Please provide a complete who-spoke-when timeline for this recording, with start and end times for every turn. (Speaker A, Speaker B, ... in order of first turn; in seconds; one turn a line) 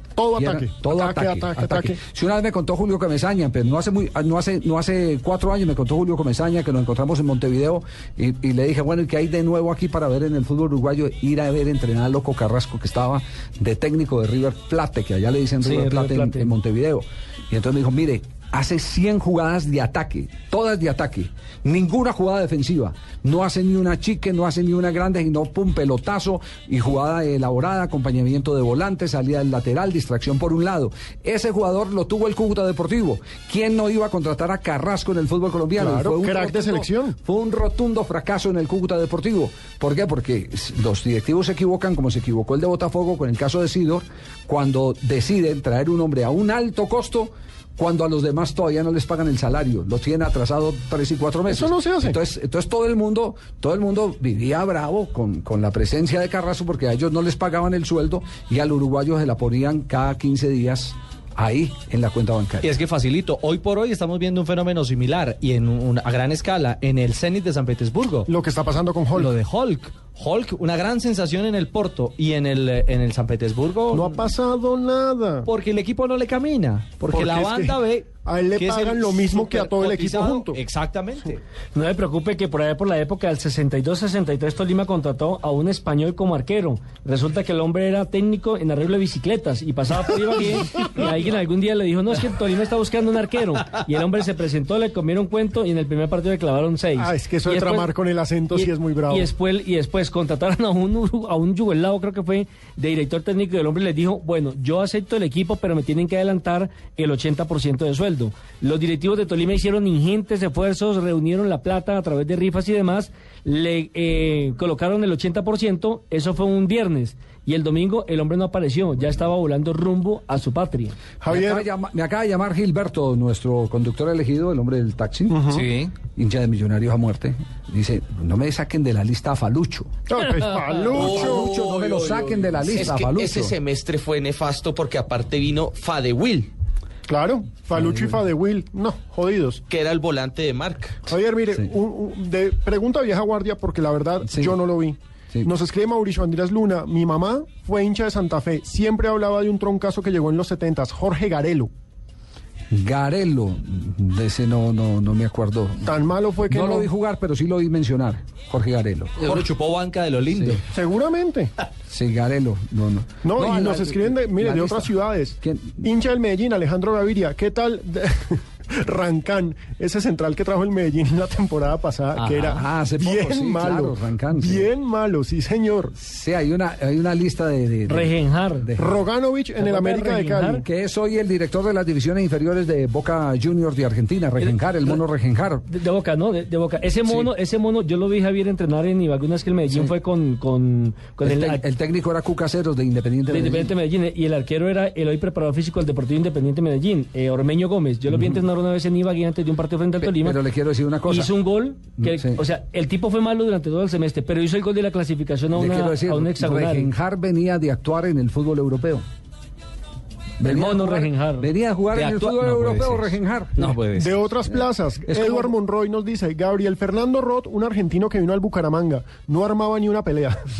Speaker A: 0.1-2.0
Speaker B: 0.4-62.7
Speaker C: 15.6-16.5
Speaker A: 35.8-37.1
Speaker A: 51.5-52.2
Speaker D: 62.6-68.3
Speaker A: 68.2-69.3
Speaker D: 69.1-74.3
Speaker A: 73.9-75.5
Speaker D: 75.4-81.4
Speaker A: 77.1-80.6
Speaker C: 81.7-97.9
Speaker A: 97.0-99.3
Speaker C: 98.5-120.9
Speaker A: 121.2-121.6
Speaker B: 121.3-125.4
Speaker A: 125.3-125.7
Speaker D: 125.5-125.9
Speaker B: 126.1-129.9
Speaker A: 130.1-131.5
Speaker E: 130.9-131.9
Speaker B: 130.9-133.5
Speaker E: 132.7-136.5
Speaker A: 137.1-139.6
Speaker B: 137.7-138.2
Speaker E: 139.7-141.1
Speaker A: 141.1-151.7
Speaker B: 144.2-144.6
Speaker B: 152.7-155.9
Speaker A: 155.8-156.9
Speaker B: 156.5-159.4
Speaker D: 159.2-160.6
Speaker B: 160.3-160.6
Speaker A: 160.7-161.5
Speaker B: 161.9-165.8
Speaker A: 163.2-175.9
Speaker B: 172.4-174.7
Speaker B: 176.0-178.9
Speaker C: 177.9-178.7
Speaker A: 178.8-180.6
Speaker C: 179.6-180.6
Speaker B: 180.6-185.7
Speaker C: 185.7-191.6
Speaker B: 187.1-187.3
Speaker B: 191.2-193.7
Speaker C: 193.3-200.4
Speaker B: 198.1-198.4
Speaker B: 200.0-201.3
Speaker C: 201.1-206.9
Speaker B: 202.0-202.4
Speaker B: 205.5-209.0
Speaker B: 210.4-213.8
Speaker C: 210.4-211.5
Speaker D: 211.9-214.3
Speaker A: 213.9-220.4
Speaker B: 215.1-215.5